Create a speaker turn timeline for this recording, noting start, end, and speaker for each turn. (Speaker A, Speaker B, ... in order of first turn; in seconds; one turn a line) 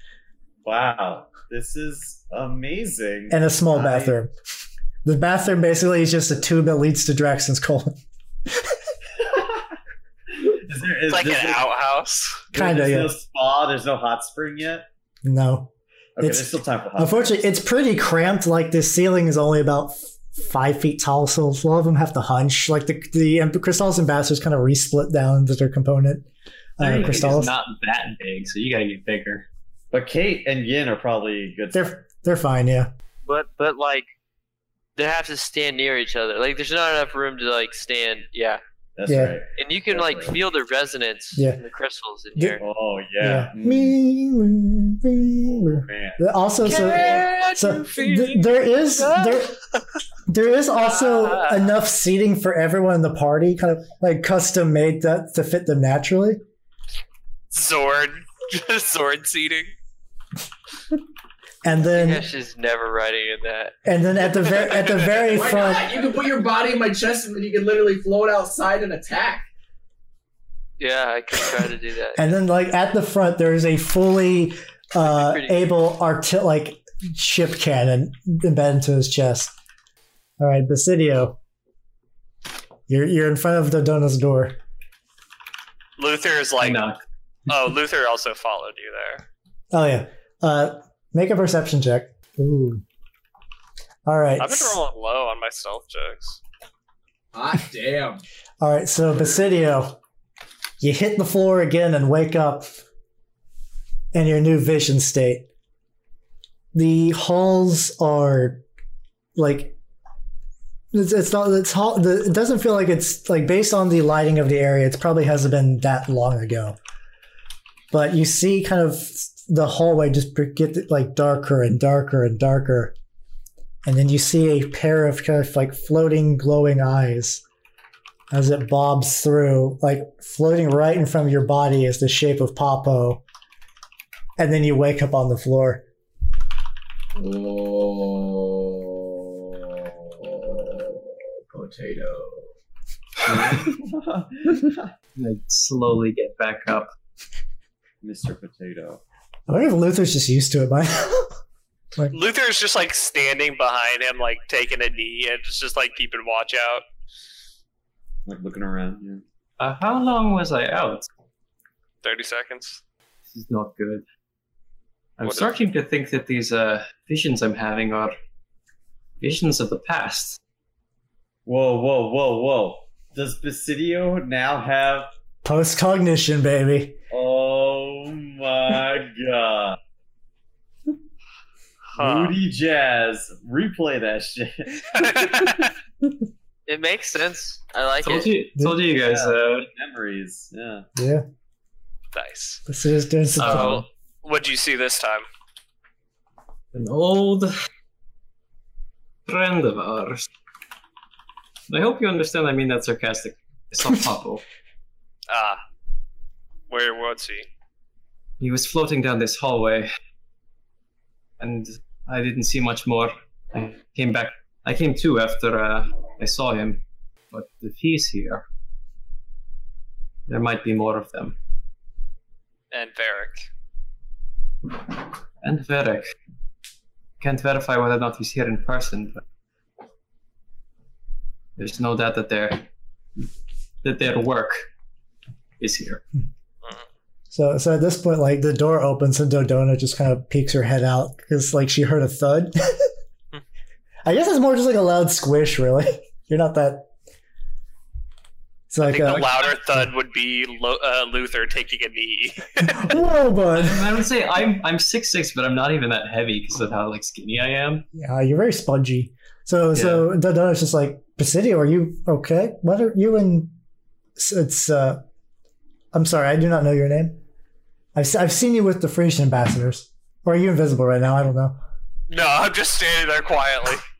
Speaker A: 0.6-4.1
Speaker B: 3.3-4.3
Speaker B: 5.0-8.8
Speaker A: 10.3-11.7
Speaker C: 11.1-12.4
Speaker B: 12.5-13.2
Speaker A: 12.5-14.9
Speaker B: 15.2-26.3
Speaker A: 16.1-17.4
Speaker B: 26.8-27.5
Speaker D: 26.8-29.5
Speaker A: 29.9-31.9
Speaker B: 31.7-32.9
Speaker E: 33.2-34.1
Speaker E: 35.0-38.6
Speaker A: 39.0-40.4
Speaker B: 39.1-39.4
Speaker E: 39.6-42.6
Speaker B: 41.3-41.6
Speaker A: 42.6-43.9
Speaker B: 43.2-49.6
Speaker A: 45.5-46.2
Speaker E: 46.7-48.3
Speaker A: 46.8-47.3
Speaker C: 47.4-48.2
Speaker B: 50.3-56.4
Speaker C: 50.9-51.6
Speaker C: 57.5-59.7
Speaker B: 61.6-62.2
Speaker E: 61.8-63.7
Speaker B: 63.8-65.9
Speaker F: 65.3-69.5
Speaker E: 70.8-72.3
Speaker B: 72.1-79.5
Speaker E: 75.0-75.6
Speaker B: 80.4-81.4
Speaker B: 82.9-84.6
Speaker C: 86.0-86.8
Speaker D: 86.6-87.0
Speaker C: 87.5-89.2
Speaker B: 89.7-92.8
Speaker B: 94.0-94.8
Speaker C: 94.4-96.4
Speaker F: 97.3-98.2
Speaker B: 98.6-100.0
Speaker B: 100.8-102.7
Speaker B: 104.1-105.5
Speaker B: 106.7-108.6
Speaker B: 109.3-109.8
Speaker B: 110.9-116.8
Speaker B: 117.9-122.9
Speaker B: 123.8-127.4
Speaker B: 128.3-133.2
Speaker B: 134.4-135.8
Speaker F: 137.1-142.5
Speaker A: 143.2-144.9
Speaker D: 145.2-146.9
Speaker A: 148.0-149.0
Speaker B: 149.5-151.3
Speaker C: 152.1-156.8
Speaker A: 158.2-159.2
Speaker D: 159.6-161.1
Speaker C: 162.0-162.8
Speaker D: 163.3-164.0
Speaker D: 165.2-168.2
Speaker D: 169.2-170.4
Speaker A: 171.4-175.1
Speaker B: 175.4-177.0
Speaker A: 177.1-179.8
Speaker C: 181.9-182.4
Speaker A: 181.9-185.4
Speaker C: 184.9-185.7
Speaker E: 186.7-188.3
Speaker D: 188.0-189.7
Speaker B: 188.6-188.8
Speaker A: 188.8-190.9
Speaker B: 190.9-191.2
Speaker C: 192.1-192.6
Speaker B: 192.7-193.8
Speaker C: 193.4-195.2
Speaker D: 193.4-193.8
Speaker D: 196.7-197.5
Speaker D: 199.2-200.3
Speaker D: 201.7-204.4
Speaker C: 205.3-205.6
Speaker C: 206.7-207.5
Speaker D: 208.4-209.9
Speaker D: 211.4-218.4
Speaker D: 220.3-221.3
Speaker C: 222.7-223.4
Speaker D: 225.4-226.0
Speaker D: 227.2-229.2
Speaker D: 231.6-232.7
Speaker D: 233.8-234.7
Speaker D: 235.6-236.0
Speaker B: 237.3-242.9
Speaker B: 244.0-246.9
Speaker B: 248.7-249.8
Speaker C: 248.8-252.9
Speaker B: 252.7-253.9
Speaker D: 253.6-257.8
Speaker B: 257.9-263.5
Speaker D: 259.7-260.1
Speaker B: 264.2-265.0
Speaker B: 265.9-267.2
Speaker B: 267.9-271.6
Speaker C: 272.1-273.8